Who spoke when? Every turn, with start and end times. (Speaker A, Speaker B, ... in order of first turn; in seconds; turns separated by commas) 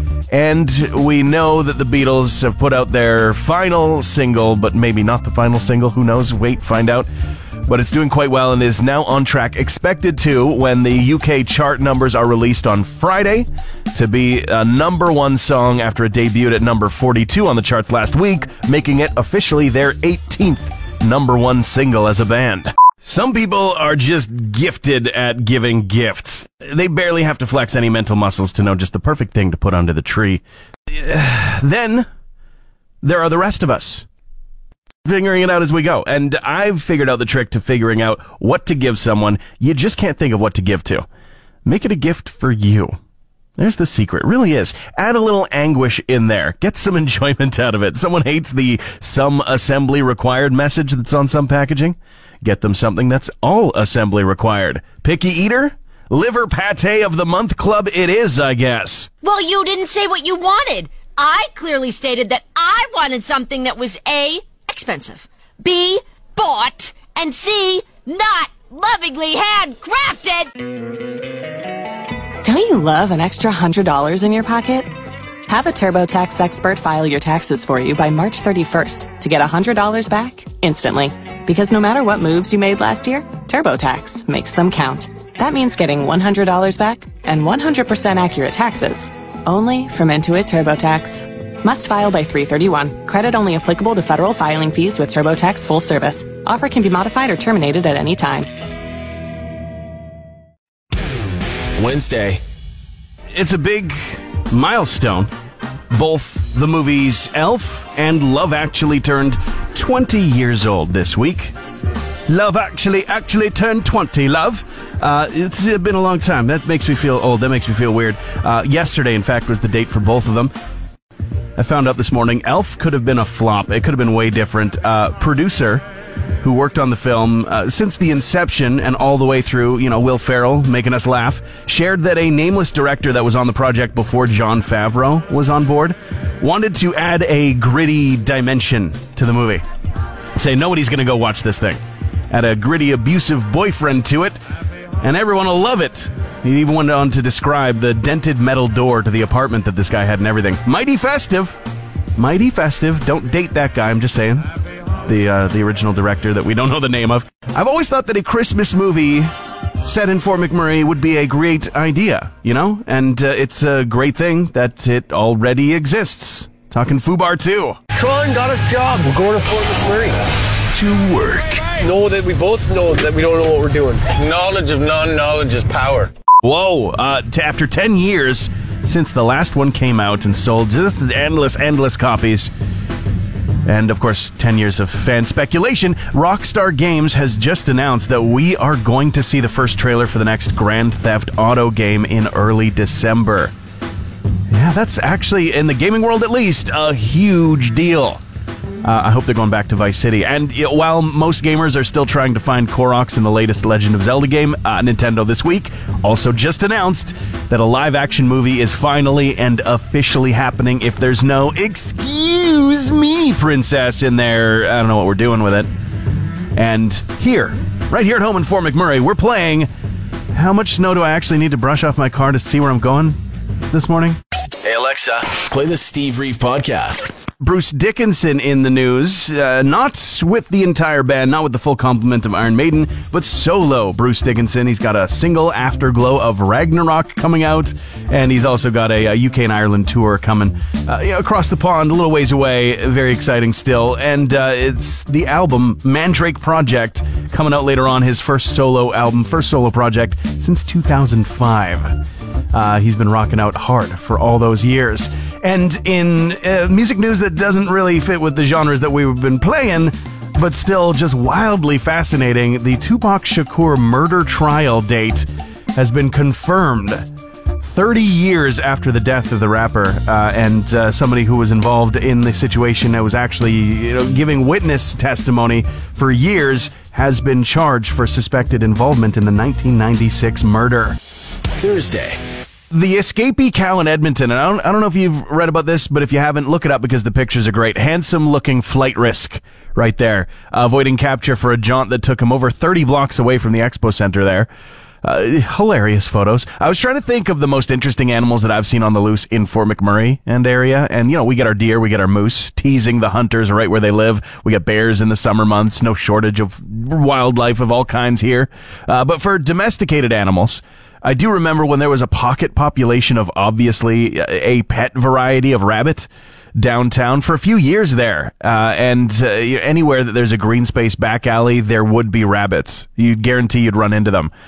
Speaker A: 0.3-7.1, Speaker A: 7.7-32.1, Speaker A: 33.0-34.1, Speaker A: 35.0-41.0, Speaker A: 41.7-43.0, Speaker A: 43.6-59.1, Speaker B: 59.2-70.5, Speaker C: 72.4-74.9, Speaker C: 75.5-98.5, Speaker D: 101.8-102.4, Speaker A: 103.3-105.3, Speaker A: 105.9-111.5, Speaker A: 112.3-120.5, Speaker A: 121.6-125.8, Speaker A: 126.4-139.6, Speaker A: 140.4-144.4, Speaker A: 145.0-151.6, Speaker A: 152.2-154.5, Speaker A: 155.1-159.3, Speaker A: 159.8-167.8, Speaker E: 167.9-170.2, Speaker A: 170.7-171.7, Speaker E: 171.7-176.1, Speaker A: 176.4-182.5, Speaker A: 183.7-193.5, Speaker A: 194.5-198.2, Speaker A: 198.8-215.7, Speaker A: 216.6-219.7, Speaker A: 220.3-223.2, Speaker A: 223.7-224.2, Speaker D: 224.6-227.1, Speaker A: 227.4-252.0, Speaker A: 252.5-267.1, Speaker A: 267.6-281.0, Speaker D: 281.6-282.2, Speaker A: 282.7-294.5, Speaker A: 295.0-324.3